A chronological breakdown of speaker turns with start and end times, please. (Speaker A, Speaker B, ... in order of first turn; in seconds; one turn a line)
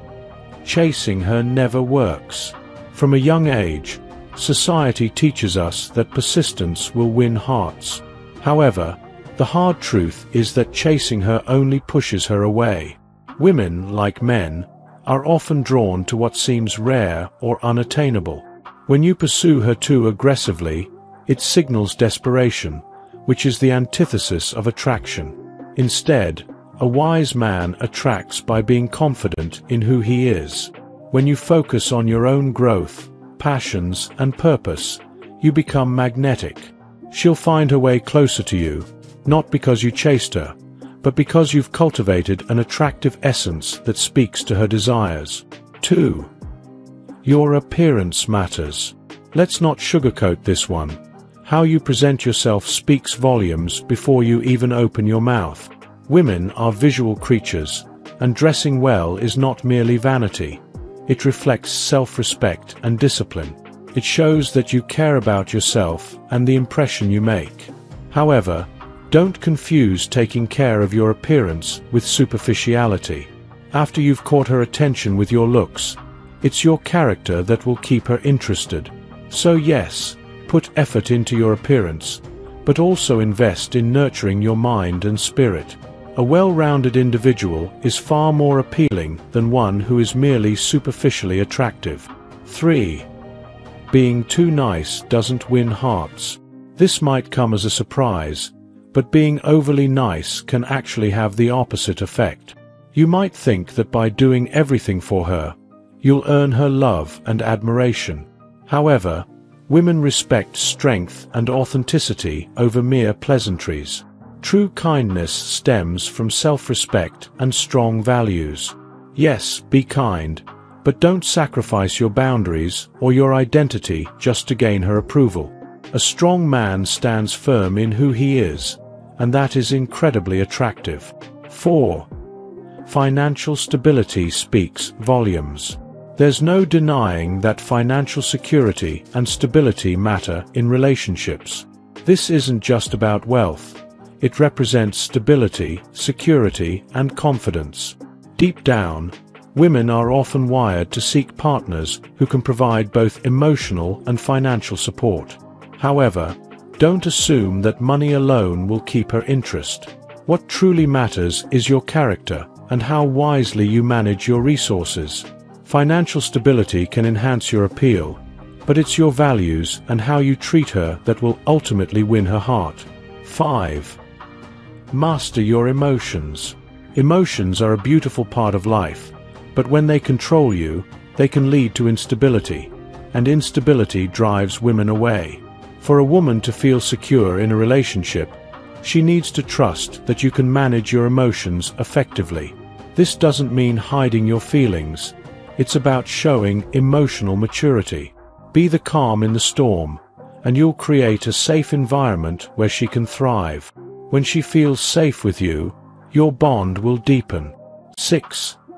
Speaker A: 0.6-46.3
Speaker A: 47.2-93.1
Speaker A: 93.9-132.1
Speaker A: 132.8-174.0
Speaker A: 174.9-208.6